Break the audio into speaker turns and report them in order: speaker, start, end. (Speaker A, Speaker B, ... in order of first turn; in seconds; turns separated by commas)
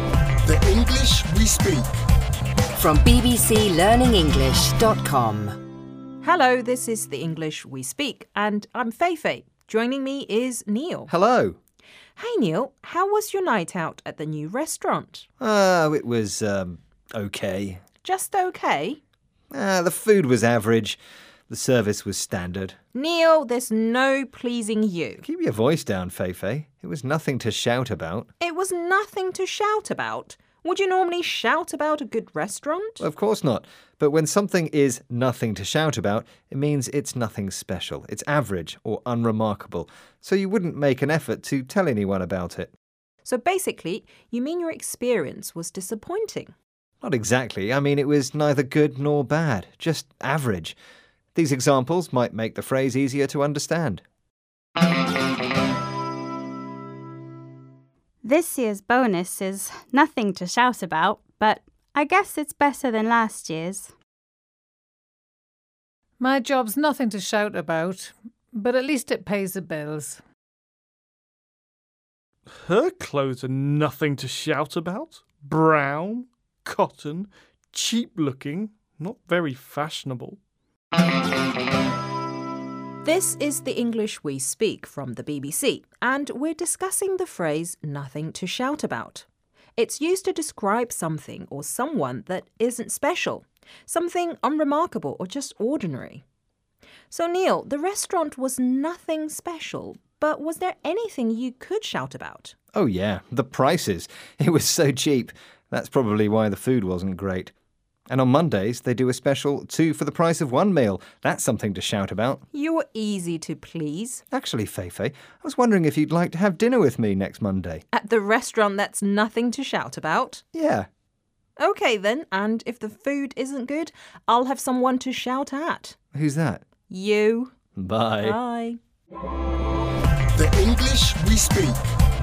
Speaker A: 0.5-1.9, Speaker B: 2.8-5.6, Speaker C: 6.2-11.1, Speaker D: 11.1-11.6, Speaker C: 12.2-15.3, Speaker D: 15.4-17.8, Speaker C: 18.0-19.0, Speaker D: 19.5-22.8, Speaker C: 22.9-25.2, Speaker D: 25.2-28.3, Speaker C: 28.4-33.0, Speaker D: 33.0-42.7, Speaker C: 43.3-46.5, Speaker D: 47.0-50.8, Speaker D: 51.3-54.0, Speaker E: 58.2-63.9, Speaker F: 66.2-70.2, Speaker G: 72.5-80.4, Speaker C: 83.0-89.2, Speaker C: 89.8-96.2, Speaker C: 97.1-102.5, Speaker D: 102.7-107.5, Speaker D: 108.1-112.4, Speaker C: 112.5-114.2, Speaker D: 114.3-117.8, Speaker C: 117.9-120.4, Speaker D: 120.5-120.9, Speaker C: 121.6-126.0, Speaker D: 126.1-126.6, Speaker C: 126.9-127.5, Speaker D: 127.8-128.4, Speaker C: 128.2-128.8, Speaker A: 130.3-131.8